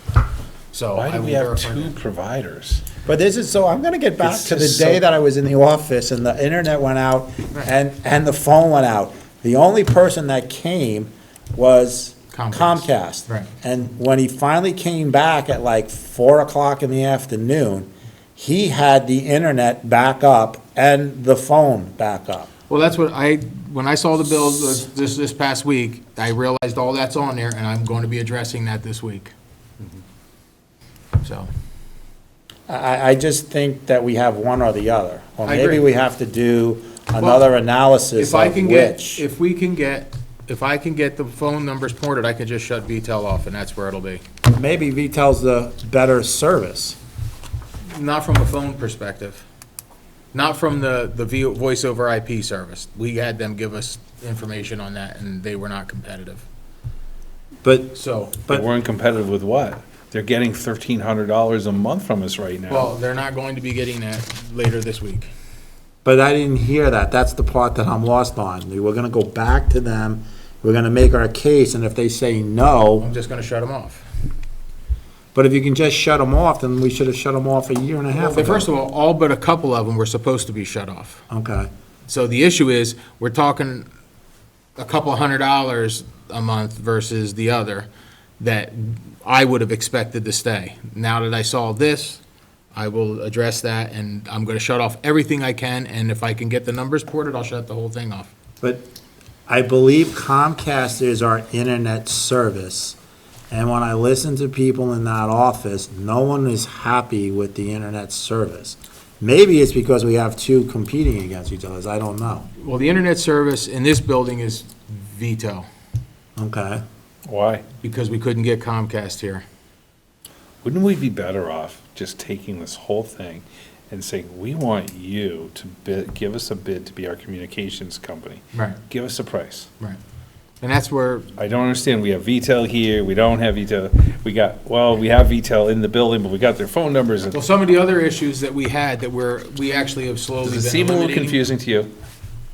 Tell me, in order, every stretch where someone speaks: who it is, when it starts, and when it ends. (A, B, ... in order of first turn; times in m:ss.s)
0:00.7-0:01.9 A
0:00.9-0:02.9 B
0:03.0-0:22.5 C
0:04.2-0:05.0 B
0:12.3-0:13.5 A
0:22.7-0:29.3 A
0:31.2-0:31.5 A
0:32.7-0:39.2 C
0:35.4-0:35.8 A
0:38.2-0:44.2 A
0:44.5-0:47.0 C
0:47.9-0:49.4 A
0:50.3-0:56.4 A
0:57.6-0:58.6 C
0:57.9-0:58.4 A
0:58.5-1:02.9 B
1:02.7-1:05.3 A
1:06.0-1:13.1 C
1:13.0-1:14.0 A
1:15.3-1:18.7 C
1:18.1-1:21.2 A
1:21.3-1:21.7 C
1:22.1-1:23.8 A
1:24.8-1:27.9 A
1:28.4-1:32.2 A
1:32.7-1:38.3 A
1:39.5-1:43.0 C
1:43.5-1:52.5 C
1:52.6-1:55.7 A
1:56.4-1:56.8 C
1:57.2-1:57.6 B
1:57.8-1:59.4 A
2:00.6-2:09.7 B
2:08.5-2:08.8 A
2:10.6-2:11.3 A
2:11.4-2:17.4 B
2:17.3-2:21.4 A
2:20.4-2:21.9 B